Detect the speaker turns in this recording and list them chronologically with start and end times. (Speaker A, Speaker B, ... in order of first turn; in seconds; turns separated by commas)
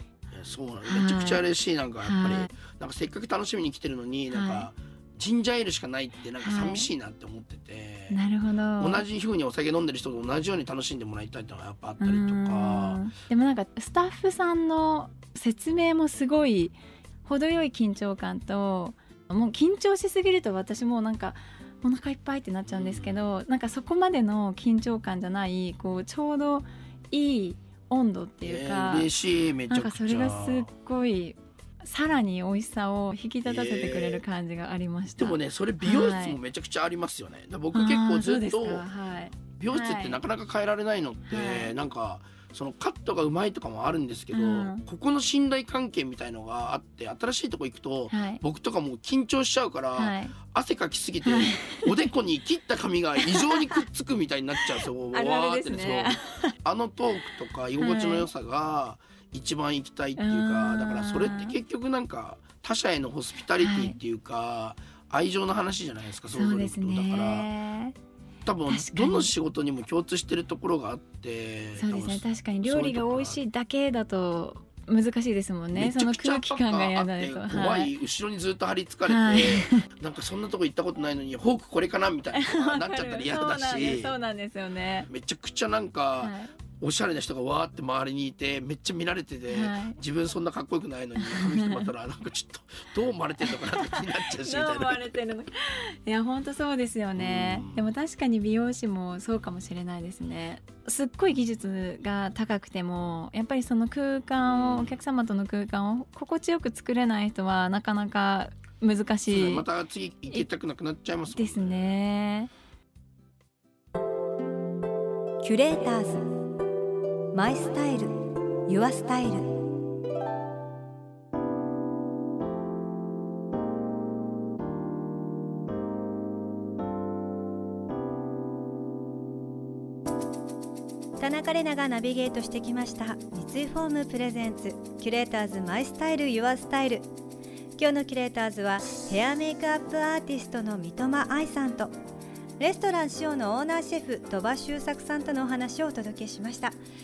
Speaker A: 0.3-8.2, Speaker B: 0.8-1.4, Speaker B: 2.0-2.5, Speaker B: 4.3-4.7, Speaker B: 6.4-6.9, Speaker B: 8.1-9.0, Speaker A: 8.8-13.0, Speaker B: 12.0-29.1, Speaker A: 22.6-23.2, Speaker A: 28.4-30.7, Speaker B: 29.7-36.4, Speaker A: 33.4-34.2, Speaker A: 35.2-38.9, Speaker B: 37.7-40.2, Speaker A: 39.6-67.5, Speaker B: 41.3-41.7, Speaker B: 44.3-44.8, Speaker B: 48.1-48.4, Speaker B: 49.9-50.4, Speaker B: 51.2-52.1, Speaker B: 53.2-53.8, Speaker B: 54.9-56.5, Speaker B: 57.8-58.3, Speaker B: 60.2-61.5, Speaker B: 63.6-64.0, Speaker B: 66.3-68.0, Speaker A: 68.4-73.4, Speaker B: 68.7-69.3, Speaker B: 71.8-77.9, Speaker A: 75.7-84.2, Speaker B: 79.1-79.8, Speaker B: 82.3-85.1, Speaker A: 85.1-95.2, Speaker B: 86.2-86.5, Speaker B: 89.5-90.0, Speaker B: 91.2-91.9, Speaker B: 93.5-109.7, Speaker A: 97.2-97.9, Speaker A: 104.4-105.0, Speaker A: 109.3-111.9, Speaker B: 111.3-112.5, Speaker C: 115.4-116.2, Speaker C: 117.3-119.5, Speaker C: 131.2-137.1, Speaker C: 137.8-141.9, Speaker C: 142.6-146.8